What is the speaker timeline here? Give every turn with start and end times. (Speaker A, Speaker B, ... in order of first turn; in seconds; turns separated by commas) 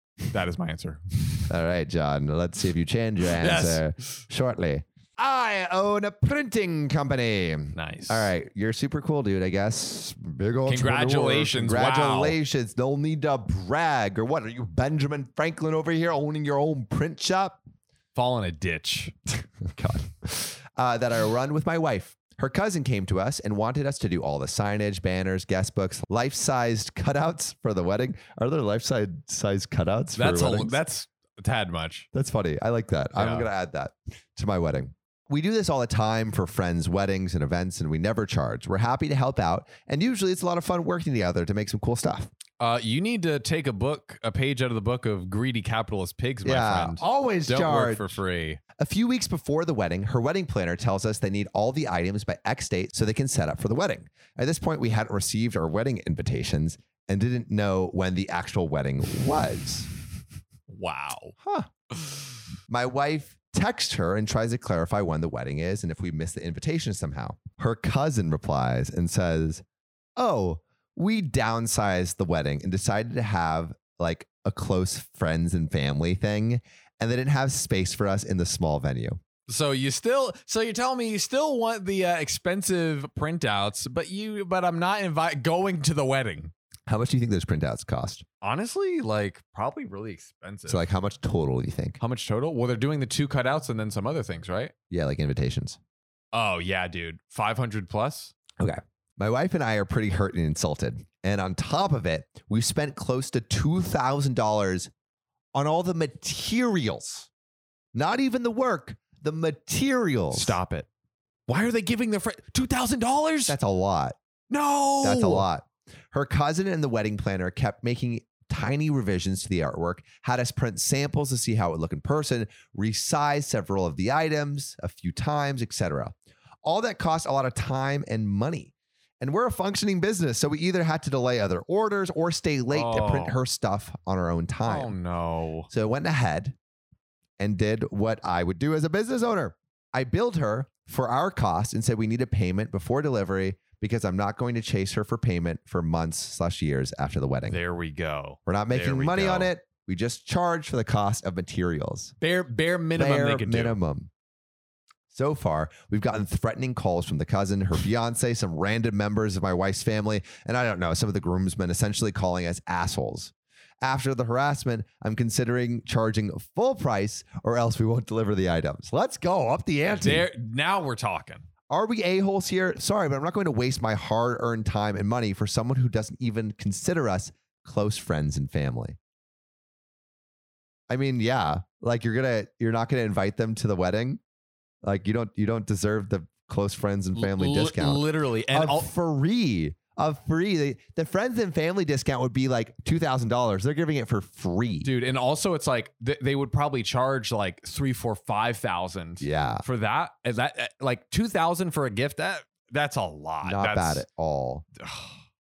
Speaker A: 0.3-1.5, Speaker B: 1.5-17.6, Speaker A: 3.4-4.0, Speaker A: 7.7-8.3, Speaker A: 10.7-12.4, Speaker A: 18.1-19.4, Speaker B: 19.7-30.8, Speaker A: 30.1-32.1, Speaker B: 32.1-42.3, Speaker A: 33.1-33.5, Speaker A: 42.6-48.6, Speaker B: 46.4-48.2, Speaker B: 48.8-59.9, Speaker A: 60.7-61.3, Speaker B: 61.4-61.7, Speaker B: 62.7-69.6, Speaker B: 70.2-79.2, Speaker A: 79.5-86.5, Speaker B: 86.9-88.2, Speaker A: 88.4-90.8, Speaker B: 90.7-92.0, Speaker A: 92.0-94.7, Speaker B: 94.9-95.8, Speaker A: 96.3-98.3, Speaker B: 98.6-104.9, Speaker B: 105.5-107.3, Speaker B: 107.9-110.6, Speaker A: 110.3-110.9, Speaker A: 111.5-113.6, Speaker B: 113.5-114.2, Speaker A: 114.5-115.5, Speaker B: 115.0-134.9, Speaker A: 132.7-133.4, Speaker A: 134.6-135.7, Speaker B: 135.7-136.5, Speaker B: 137.4-147.6, Speaker A: 147.5-149.5, Speaker B: 148.4-152.1, Speaker A: 152.2-153.8, Speaker B: 153.0-154.1, Speaker B: 155.1-170.3, Speaker A: 169.9-171.5, Speaker B: 171.7-179.0, Speaker B: 180.9-184.2, Speaker B: 184.8-194.9, Speaker A: 187.1-188.9, Speaker A: 194.8-204.0, Speaker B: 199.2-199.6, Speaker B: 203.4-204.6, Speaker A: 204.8-205.2